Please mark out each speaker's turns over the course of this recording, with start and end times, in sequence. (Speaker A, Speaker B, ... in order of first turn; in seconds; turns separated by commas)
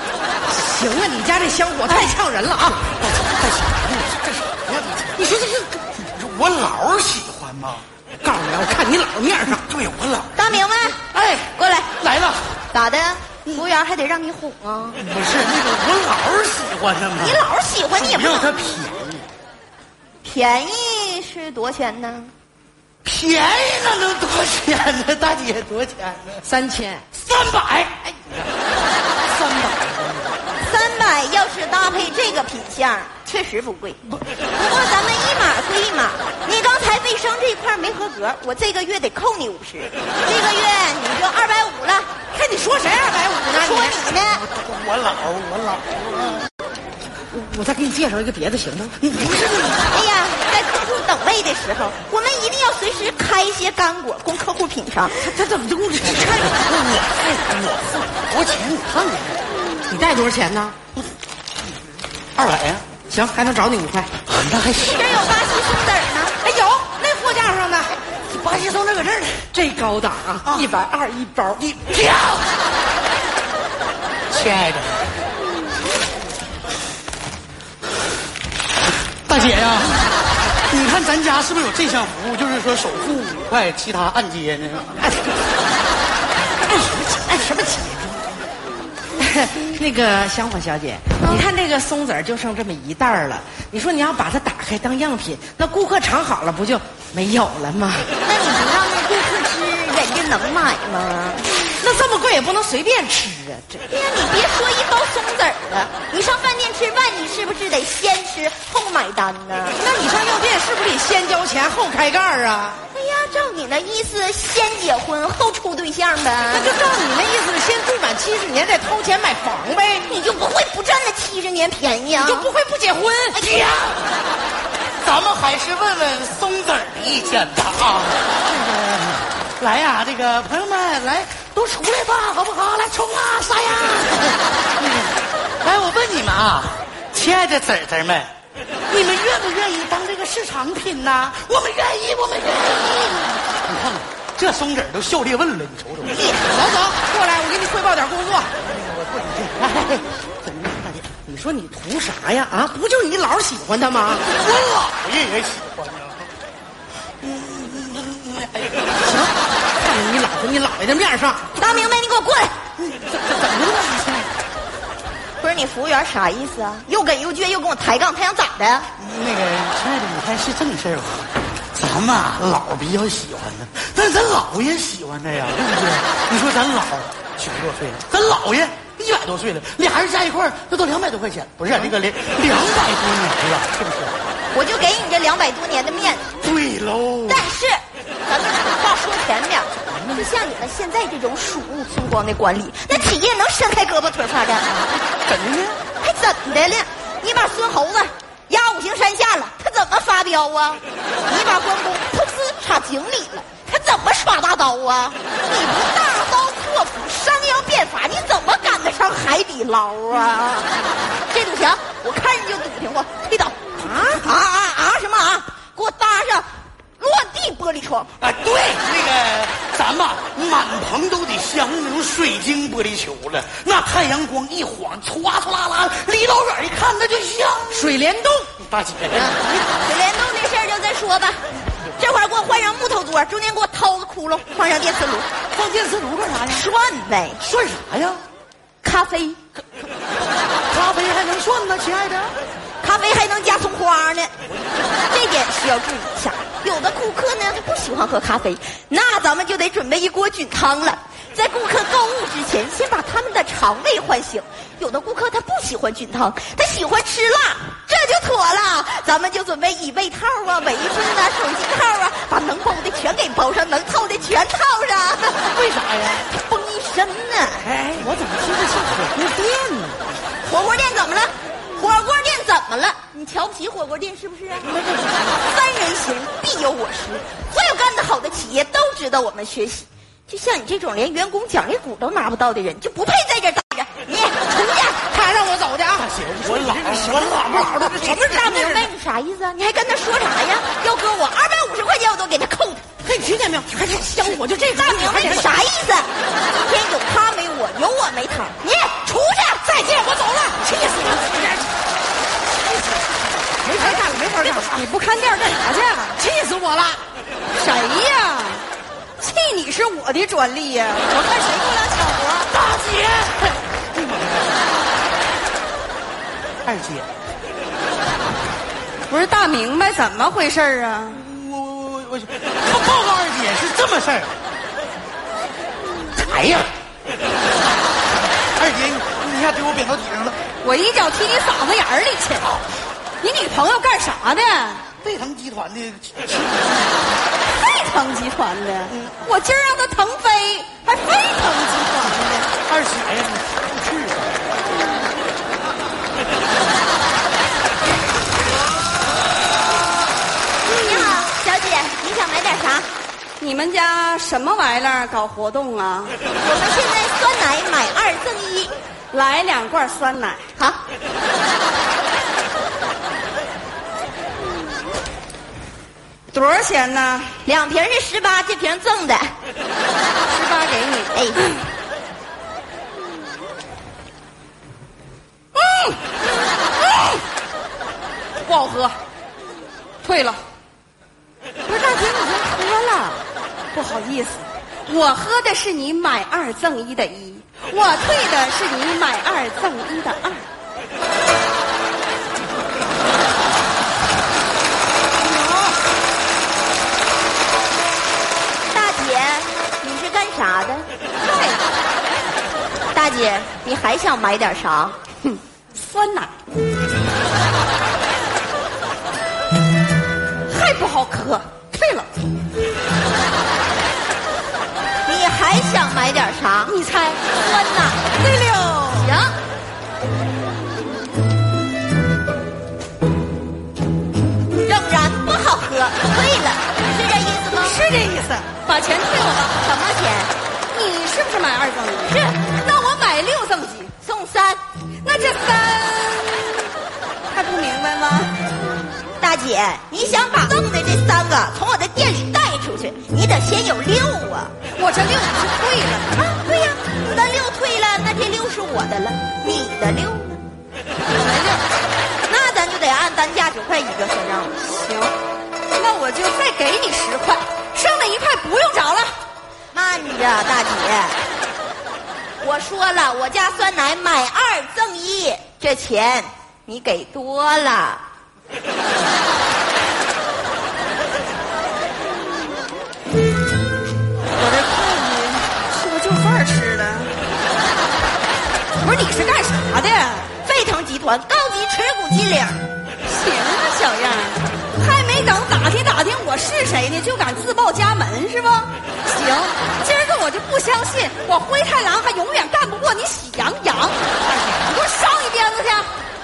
Speaker A: 0.5-2.9, Speaker B: 1.9-2.1, Speaker C: 2.7-7.8, Speaker A: 5.2-5.6, Speaker A: 8.2-9.6, Speaker C: 9.5-12.6, Speaker B: 10.3-11.0, Speaker B: 11.6-11.9, Speaker B: 12.7-15.0, Speaker C: 14.9-19.3, Speaker B: 17.2-18.6, Speaker B: 20.2-22.3, Speaker C: 23.0-26.4, Speaker A: 26.4-27.1, Speaker C: 27.1-28.5, Speaker C: 29.3-30.3, Speaker B: 30.6-42.1, Speaker A: 42.3-44.0, Speaker B: 43.5-44.4, Speaker C: 44.3-46.5, Speaker A: 47.3-49.0, Speaker C: 49.0-50.0, Speaker B: 49.9-55.2, Speaker A: 55.1-56.6, Speaker C: 56.0-59.4, Speaker A: 59.9-60.8, Speaker C: 62.4-62.9, Speaker A: 63.1-64.1, Speaker C: 64.2-65.2, Speaker B: 64.7-66.4, Speaker A: 66.4-67.9, Speaker C: 68.2-69.5, Speaker A: 69.5-71.6, Speaker C: 70.4-70.7, Speaker C: 71.5-72.5, Speaker C: 74.3-75.1, Speaker C: 79.2-80.1, Speaker C: 80.7-85.0, Speaker A: 85.0-85.3, Speaker A: 86.7-88.3, Speaker A: 89.2-98.1, Speaker B: 98.2-101.4, Speaker A: 101.8-103.8, Speaker B: 103.8-109.8, Speaker A: 109.8-112.8, Speaker B: 112.9-116.7, Speaker A: 116.5-120.1, Speaker B: 120.1-122.5, Speaker A: 122.1-123.4, Speaker B: 123.4-123.6, Speaker C: 123.4-124.1, Speaker C: 125.0-138.3, Speaker C: 138.9-146.3, Speaker A: 146.3-148.5, Speaker C: 148.6-151.1, Speaker A: 151.2-154.2, Speaker C: 154.1-156.3, Speaker C: 157.2-159.0, Speaker A: 159.0-161.5, Speaker B: 161.6-162.5, Speaker C: 162.8-164.3, Speaker B: 165.4-168.9, Speaker C: 169.0-184.3, Speaker B: 184.5-186.3, Speaker C: 186.4-187.5, Speaker B: 187.3-194.9, Speaker C: 189.9-190.3, Speaker C: 195.2-195.8, Speaker B: 196.0-210.8, Speaker B: 211.3-216.5, Speaker A: 213.8-214.3, Speaker B: 217.0-218.1, Speaker C: 218.2-227.9, Speaker A: 227.7-228.5, Speaker C: 228.6-229.4, Speaker A: 229.1-229.7, Speaker B: 229.7-235.3, Speaker C: 235.5-236.7, Speaker B: 236.4-237.4, Speaker C: 237.4-238.2, Speaker B: 238.8-239.4, Speaker C: 240.7-242.4, Speaker B: 242.8-244.3, Speaker C: 244.5-244.9, Speaker B: 245.1-265.6, Speaker C: 265.5-266.2, Speaker B: 266.2-267.7, Speaker A: 267.8-270.0, Speaker B: 270.4-274.7, Speaker A: 274.6-275.4, Speaker B: 275.4-285.0, Speaker A: 285.1-288.9, Speaker C: 286.0-288.1, Speaker B: 288.0-292.9, Speaker A: 293.0-295.6, Speaker B: 294.2-299.6, Speaker A: 299.6-301.7, Speaker A: 302.6-304.9, Speaker D: 303.8-306.2, Speaker A: 306.1-307.0, Speaker D: 307.5-308.6, Speaker D: 309.2-312.5, Speaker C: 312.5-314.6, Speaker C: 316.6-317.1, Speaker D: 319.1-321.2, Speaker C: 321.1-324.3, Speaker C: 326.1-326.7, Speaker C: 328.5-330.4, Speaker D: 330.6-332.6, Speaker D: 333.2-334.9, Speaker C: 334.9-337.3, Speaker D: 337.4-342.5, Speaker C: 338.9-339.2, Speaker C: 342.6-344.4, Speaker B: 350.6-352.9, Speaker D: 350.9-351.2, Speaker D: 353.4-356.2, Speaker B: 356.3-358.7, Speaker D: 359.1-360.5, Speaker B: 360.6-360.8, Speaker D: 366.3-367.4, Speaker B: 367.4-369.3, Speaker D: 370.2-371.5, Speaker B: 371.1-371.4, Speaker D: 375.6-377.2, Speaker D: 378.4-379.0, Speaker D: 380.0-380.4, Speaker D: 381.6-390.5, Speaker D: 395.2-395.8, Speaker B: 398.7-400.9, Speaker D: 401.1-401.6, Speaker B: 402.9-405.0, Speaker D: 405.7-406.4, Speaker D: 410.5-412.1, Speaker B: 415.1-416.8, Speaker D: 416.7-419.1, Speaker B: 417.3-418.1, Speaker B: 418.7-419.3, Speaker B: 424.5-427.8, Speaker D: 427.6-429.6, Speaker B: 429.6-430.3, Speaker D: 430.7-433.9, Speaker B: 432.1-432.4, Speaker B: 434.0-434.6, Speaker D: 435.0-436.6, Speaker D: 437.3-438.4, Speaker B: 439.2-444.6, Speaker D: 444.7-446.1, Speaker B: 446.1-450.4, Speaker D: 451.1-451.7, Speaker B: 452.3-454.5, Speaker D: 454.6-455.2, Speaker D: 455.7-459.1, Speaker B: 459.7-461.2, Speaker B: 462.4-468.0, Speaker D: 474.3-477.2, Speaker D: 478.7-480.3, Speaker B: 480.4-482.6, Speaker D: 483.0-496.0, Speaker C: 494.3-494.6